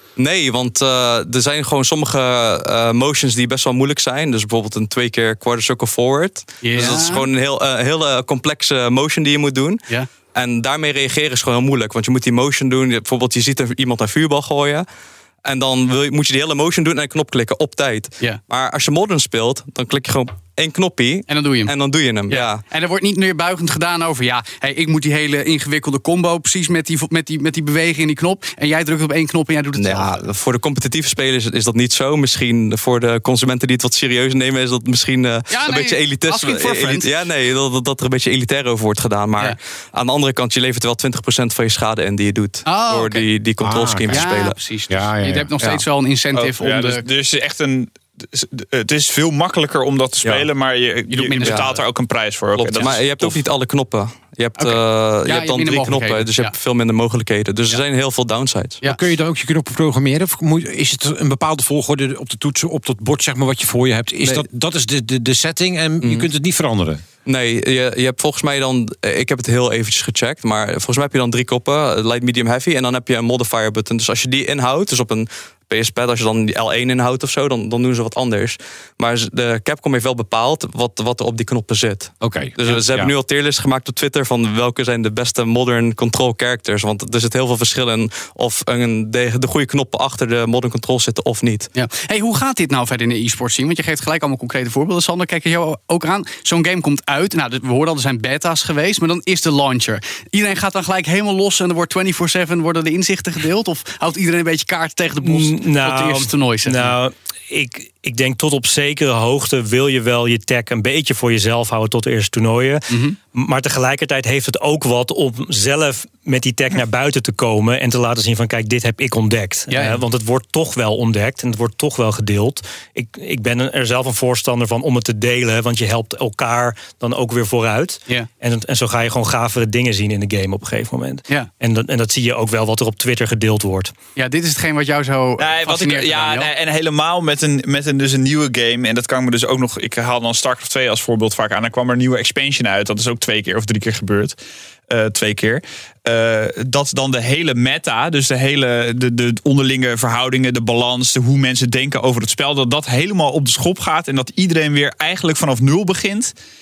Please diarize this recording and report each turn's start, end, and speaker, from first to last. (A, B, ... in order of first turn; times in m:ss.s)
0:00.2-0:09.8 A
0:06.6-0:07.2 B
0:10.3-0:14.9 A
0:15.4-0:22.6 A
0:21.3-0:21.7 B
0:22.3-0:30.2 B
0:29.8-0:44.6 A
0:35.5-0:37.1 B
0:42.6-0:43.2 B
0:43.6-0:44.3 C
0:44.1-0:47.0 B
0:44.9-0:45.8 C
0:46.4-0:53.4 D
0:51.1-0:51.8 B
0:51.4-0:51.7 A
0:52.6-0:58.8 A
0:54.6-0:56.5 B
0:58.8-1:07.0 C
1:06.0-1:06.3 A
1:07.2-1:31.7 A
1:22.2-1:23.1 C
1:31.7-1:47.0 B
1:45.2-2:13.9 E
1:52.9-1:53.2 B
1:59.7-2:00.0 B
2:14.2-2:16.5 B
2:15.4-2:36.3 D